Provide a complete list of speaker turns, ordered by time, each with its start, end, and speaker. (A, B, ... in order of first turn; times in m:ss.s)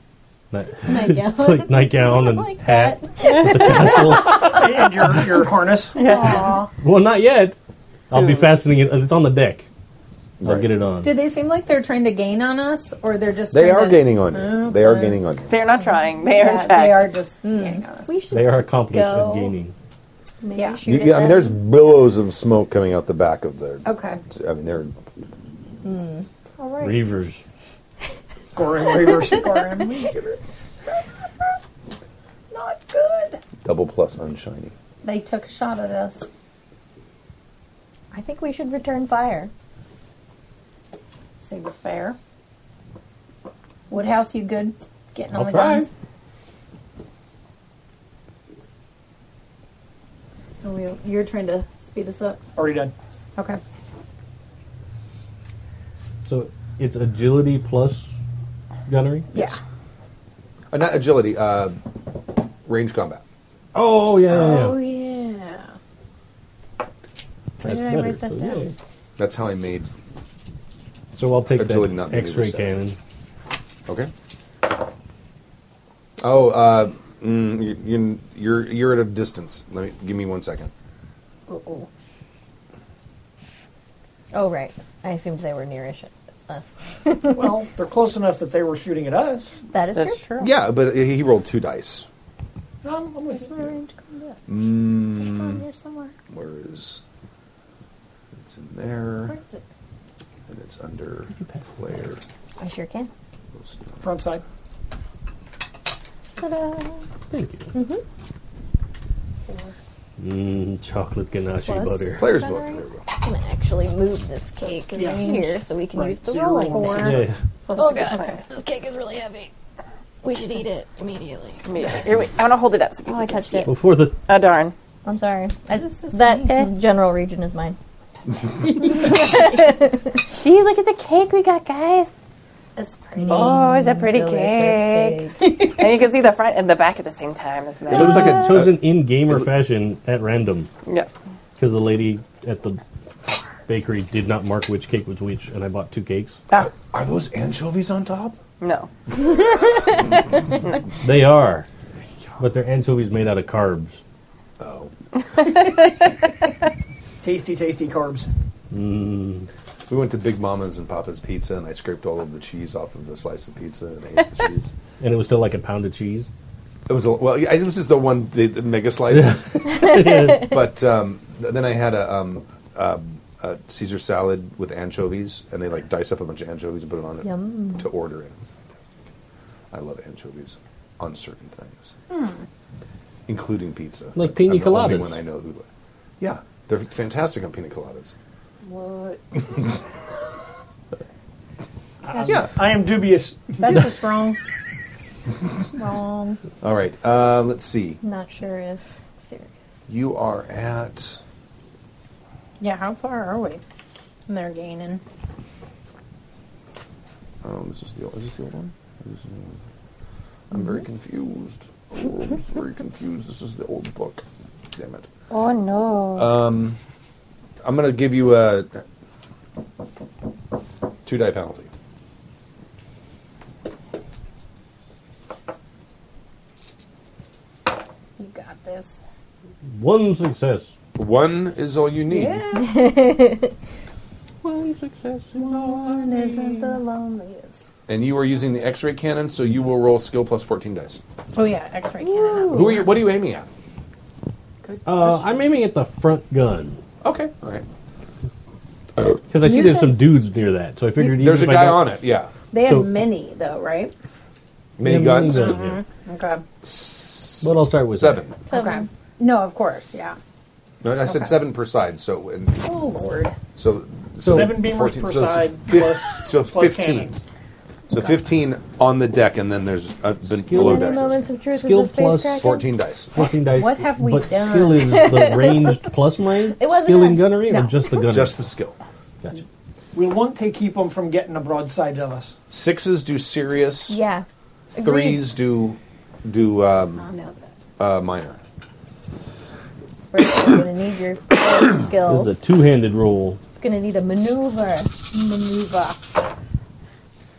0:00.5-0:04.8 A
0:00.8-0:03.9 B
0:04.4-0:06.0 C
0:06.0-0:06.6 D
0:06.0-0:06.7 E
0:06.8-0:07.6 A
0:08.1-0:09.7 A
0:08.1-0:08.5 D
0:10.4-0:10.7 F
0:10.4-0:11.2 A
0:11.0-0:15.2 E
0:13.5-0:15.6 F
0:15.5-0:17.2 D
0:16.2-0:18.2 E
0:17.4-0:19.6 B
0:18.3-0:19.7 A
0:20.4-0:21.6 B
0:20.5-0:20.8 E
0:20.8-0:25.0 F
0:23.8-0:24.2 E
0:25.8-0:26.3 B
0:26.6-0:27.0 E
0:26.8-0:27.4 A
0:28.5-0:30.0 C
0:29.1-0:30.4 E
0:32.5-0:33.4 E
0:33.6-0:34.7 F
0:35.0-0:36.3 E
0:38.1-0:39.5 B
0:41.4-0:42.2 E
0:43.9-0:45.9 E
0:45.3-0:45.9 A
0:50.6-0:52.4 E
0:52.6-0:52.9 C
0:56.2-0:58.1 A
0:58.9-0:59.3 A
0:59.3-0:59.6 E
1:00.7-1:01.8 F
1:02.6-1:03.2 F
1:03.7-1:04.8 A
1:04.3-1:05.7 E
1:07.6-1:08.7 E
1:07.6-1:08.7 A
1:09.2-1:09.9 F
1:11.2-1:13.0 A
1:11.5-1:12.8 F
1:16.2-1:20.7 F
1:21.5-1:21.9 E
1:24.3-1:27.6 B
1:27.3-1:29.6 C
1:29.7-1:30.3 B
1:30.0-1:30.5 D
1:30.4-1:32.1 F
1:32.8-1:33.8 C
1:33.6-1:36.2 E
1:34.5-1:35.6 F
1:36.3-1:37.0 F
1:38.4-1:39.4 F
1:39.2-1:39.6 E
1:40.5-1:42.2 F
1:41.3-1:42.0 A
1:42.6-1:43.1 B
1:43.6-1:44.0 F
1:44.0-1:44.4 C
1:47.3-1:47.7 A
1:47.7-1:48.0 B
1:49.5-1:49.8 E
1:50.2-1:52.3 A
1:51.6-1:52.2 E
1:52.2-1:53.0 F
1:52.3-1:57.1 B
1:54.6-1:55.4 E
1:55.0-1:57.2 C
1:56.6-1:58.4 E
1:57.0-1:57.4 A
1:57.8-1:59.5 B
2:00.2-2:01.7 B
2:01.7-2:03.7 D
2:03.1-2:03.8 B
2:03.7-2:04.2 A
2:04.3-2:04.8 D
2:05.1-2:07.8 B
2:05.7-2:06.7 E
2:08.7-2:09.7 E
2:08.8-2:10.2 B
2:10.4-2:12.1 D
2:12.8-2:13.6 E
2:13.2-2:15.6 B
2:13.3-2:18.4 D
2:15.4-2:15.8 E
2:17.9-2:19.5 F
2:17.9-2:20.7 A
2:20.8-2:21.1 D
2:21.6-2:22.8 A
2:23.7-2:26.4 A
2:26.6-2:28.4 F
2:28.6-2:28.9 D
2:31.0-2:31.7 A
2:32.4-2:34.0 A
2:34.6-2:34.9 F
2:35.4-2:35.8 D
2:37.2-2:38.3 C
2:38.7-2:39.5 A
2:39.9-2:44.7 F
2:45.0-2:46.3 A
2:46.9-2:59.1 F
2:49.1-2:50.6 A
2:49.6-2:50.3 B
2:57.2-2:57.9 B
2:59.7-3:02.0 F
3:02.1-3:02.4 E
3:03.3-3:05.7 F
3:04.2-3:05.2 A
3:06.2-3:08.2 F
3:08.6-3:09.2 E
3:12.0-3:13.8 C
3:12.3-3:12.6 F
3:13.6-3:14.4 E
3:15.7-3:16.4 E
3:16.6-3:18.0 F
3:18.0-3:19.5 B
3:19.9-3:21.2 F
3:22.6-3:23.6 E
3:24.3-3:25.0 E
3:27.4-3:29.6 F
3:30.5-3:34.2 F
3:34.8-3:35.1 F
3:35.3-3:36.4 D
3:36.2-3:36.8 F
3:37.6-3:38.8 F
3:41.0-3:41.7 F
3:48.2-3:49.0 E
3:49.8-3:50.7 A
3:51.0-3:52.4 F
3:52.1-3:53.0 E
3:52.6-3:53.5 B
3:54.4-3:56.8 A
3:55.4-3:57.7 E
3:57.9-4:01.0 F
4:01.4-4:03.0 E
4:02.0-4:02.9 B
4:02.5-4:03.5 F
4:04.6-4:05.4 E
4:04.8-4:06.8 A
4:07.0-4:07.6 F
4:09.3-4:11.9 A
4:09.4-4:10.2 E
4:11.0-4:12.3 F
4:12.5-4:13.9 E
4:12.6-4:13.0 A
4:14.8-4:15.8 F
4:14.8-4:15.7 A
4:15.3-4:16.4 E
4:16.6-4:18.4 F
4:17.4-4:18.3 A
4:18.5-4:18.9 B
4:18.5-4:20.2 E
4:20.8-4:22.6 F
4:21.0-4:21.4 E
4:22.6-4:23.4 E
4:23.6-4:27.1 F
4:24.2-4:24.6 A
4:24.3-4:27.2 C
4:27.9-4:31.1 F
4:30.4-4:32.6 A
4:30.6-4:32.6 B
4:32.4-4:33.1 F
4:33.1-4:38.4 A
4:33.4-4:35.1 E
4:34.8-4:35.9 B
4:36.6-4:37.4 B
4:37.5-4:37.8 E
4:38.1-4:38.8 F
4:39.9-4:42.4 C
4:42.5-4:44.0 F
4:43.9-4:45.3 B
4:44.8-4:47.1 F
4:47.0-4:47.5 E
4:47.8-4:48.4 F
4:50.1-4:52.4 B
4:52.0-4:53.4 A
4:53.6-4:54.9 B
4:55.1-4:56.0 E